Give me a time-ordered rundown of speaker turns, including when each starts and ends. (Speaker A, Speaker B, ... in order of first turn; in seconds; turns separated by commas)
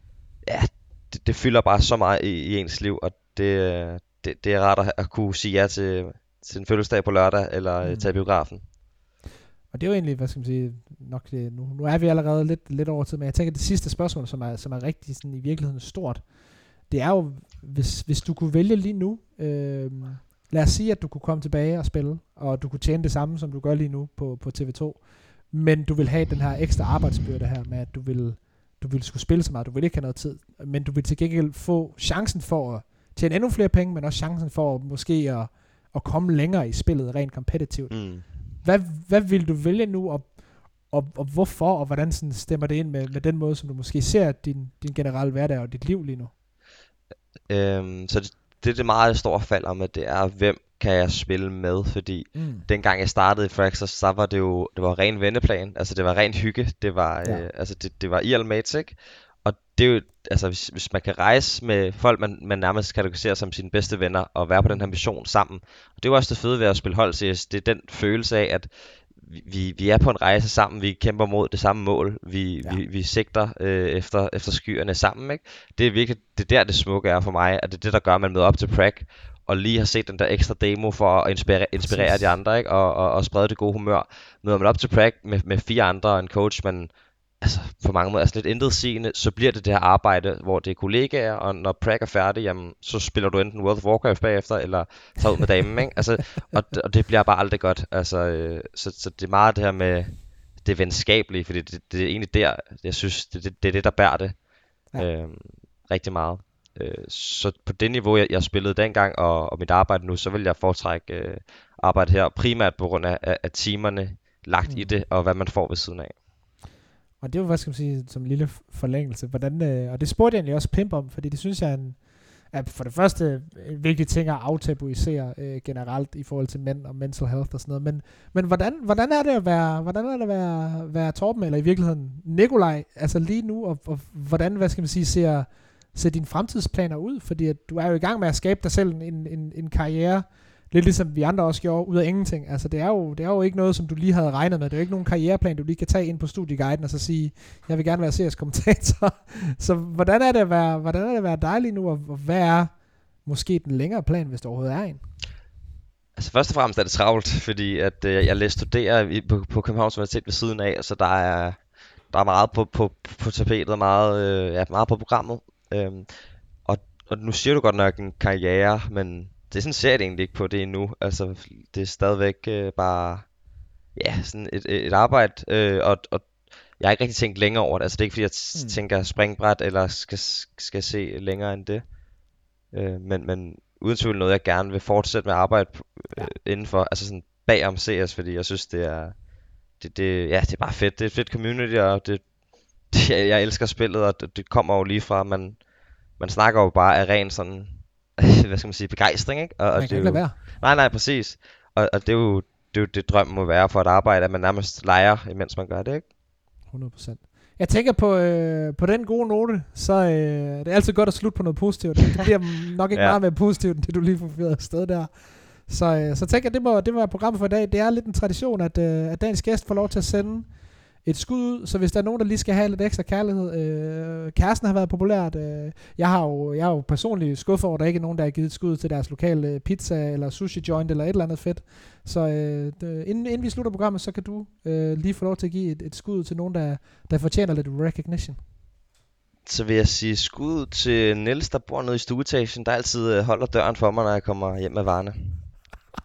Speaker A: 0.4-8.6, Speaker B: 7.8-8.1, Speaker B: 9.7-16.2, Speaker B: 16.9-38.0, Speaker A: 37.9-38.3, Speaker B: 38.6-40.4, Speaker B: 40.9-46.3, Speaker A: 47.5-104.4, Speaker B: 52.4-52.7, Speaker B: 64.7-64.9, Speaker B: 81.8-82.3, Speaker A: 105.0-116.2, Speaker B: 114.7-114.9, Speaker B: 117.2-122.0, Speaker B: 122.5-152.7, Speaker B: 153.2-155.0, Speaker A: 156.2-166.1, Speaker A: 166.7-173.3, Speaker A: 173.9-181.8, Speaker B: 178.5-178.8, Speaker A: 182.7-189.2, Speaker A: 189.8-192.3, Speaker A: 192.8-195.7, Speaker A: 196.2-206.1, Speaker B: 199.8-200.4, Speaker B: 206.7-215.1, Speaker A: 212.9-213.2, Speaker B: 215.6-220.5, Speaker B: 221.0-238.4, Speaker A: 239.5-245.3